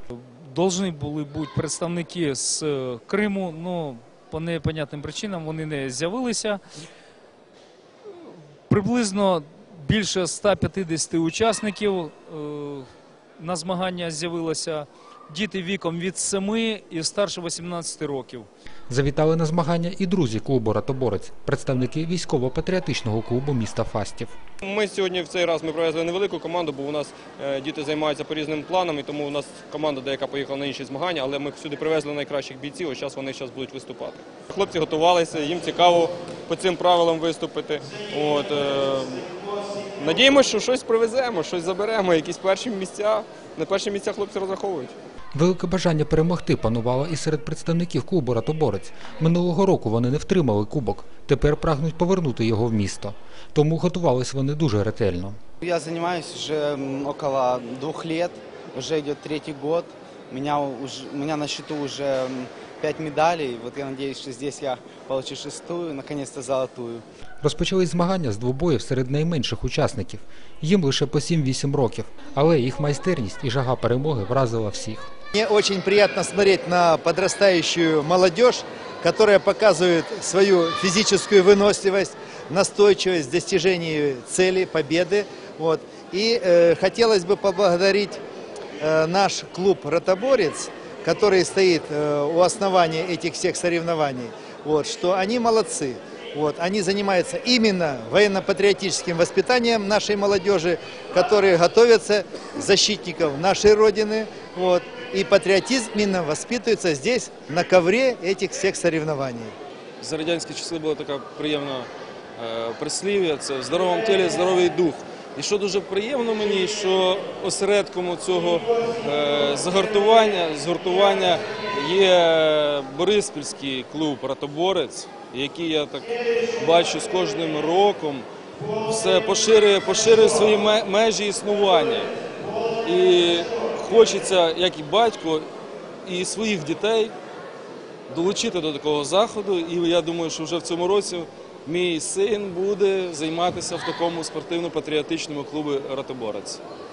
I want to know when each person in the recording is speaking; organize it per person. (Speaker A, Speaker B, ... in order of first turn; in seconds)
Speaker A: 0.1-6.6, 8.7-18.5
Speaker B: 18.9-24.4, 45.4-55.4, 67.4-75.1
Speaker C: 24.6-39.3, 40.0-45.0
Speaker D: 55.6-67.0
Speaker E: 75.3-88.2, 88.8-109.5
Speaker F: 110.0-128.3, 128.9-132.1, 132.8-135.5, 136.1-137.1, 138.1-146.6